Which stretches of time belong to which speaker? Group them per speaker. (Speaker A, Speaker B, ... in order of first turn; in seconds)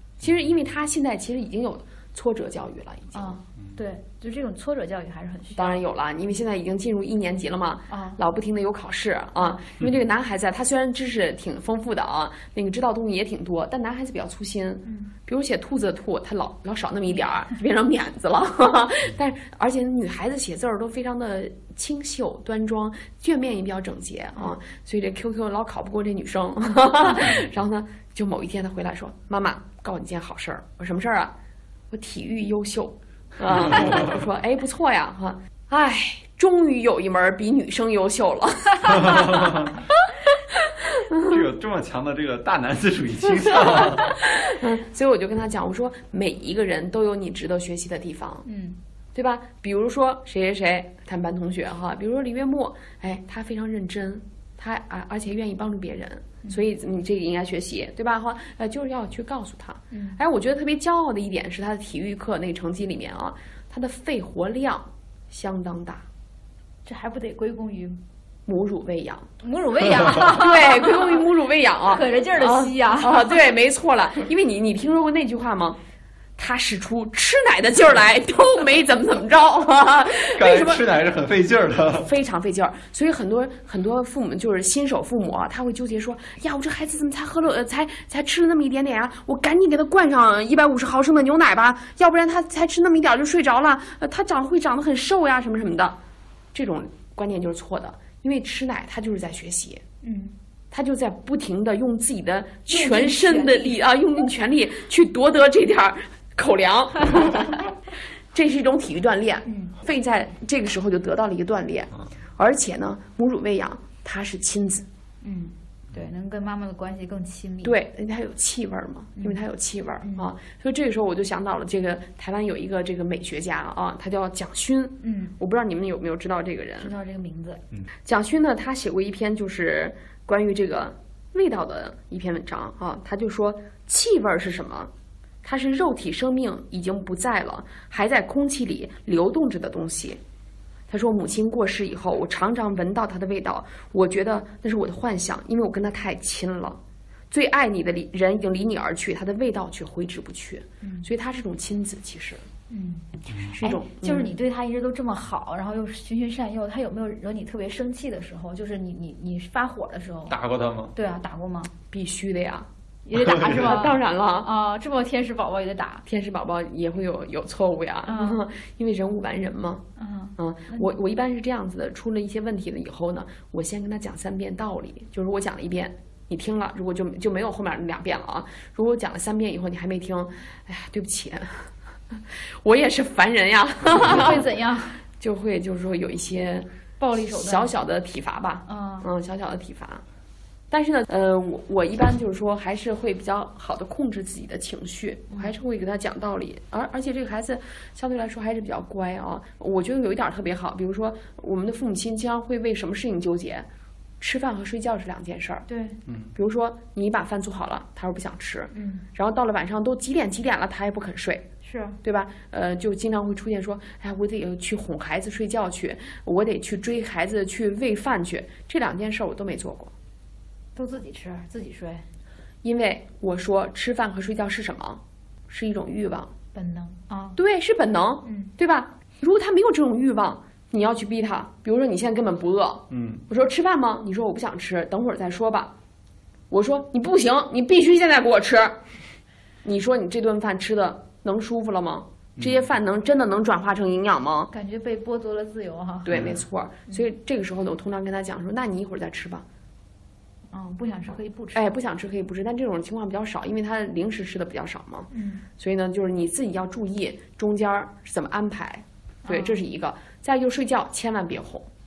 Speaker A: 0.2-3.4, 5.6-31.3, 31.9-39.6, 41.0-41.4, 43.9-48.5, 49.1-66.0, 68.5-69.3, 70.2-75.8, 76.4-80.8, 82.0-96.0, 96.5-99.8, 100.7-107.6, 108.3-114.9, 117.6-126.9, 128.1-134.9, 135.4-140.2, 140.9-146.8, 147.3-152.4, 153.6-154.3, 161.9-162.7, 163.4-164.5, 166.1-169.8, 170.4-184.4, 185.2-190.0, 190.7-203.7, 204.2-205.7, 206.3-211.5, 212.0-219.9, 222.6-226.3, 227.4-235.7, 236.5-238.8, 239.6-244.5, 246.1-249.4, 251.5-261.7
Speaker B: 3.1-5.8, 7.9-8.2, 14.8-15.1, 48.5-48.8, 59.9-60.2, 66.8-68.0, 69.4-71.2, 71.9-73.4, 100.0-100.3, 102.7-103.8, 109.5-109.7, 115.2-117.8, 120.0-120.3, 125.0-125.3, 126.8-127.6, 152.7-160.4, 160.9-161.7, 163.1-166.0, 168.1-168.4, 170.0-170.9, 183.9-185.0, 187.0-187.8, 188.7-189.1, 205.7-206.0, 208.7-209.1, 211.6-212.0, 220.8-222.1, 226.5-227.4, 228.2-228.5, 244.5-246.1, 250.5-251.6, 255.1-255.4, 259.2-259.6
Speaker C: 41.2-44.2, 80.3-82.1, 160.3-160.9, 163.2-163.6, 232.9-233.2, 242.4-242.6, 246.1-246.4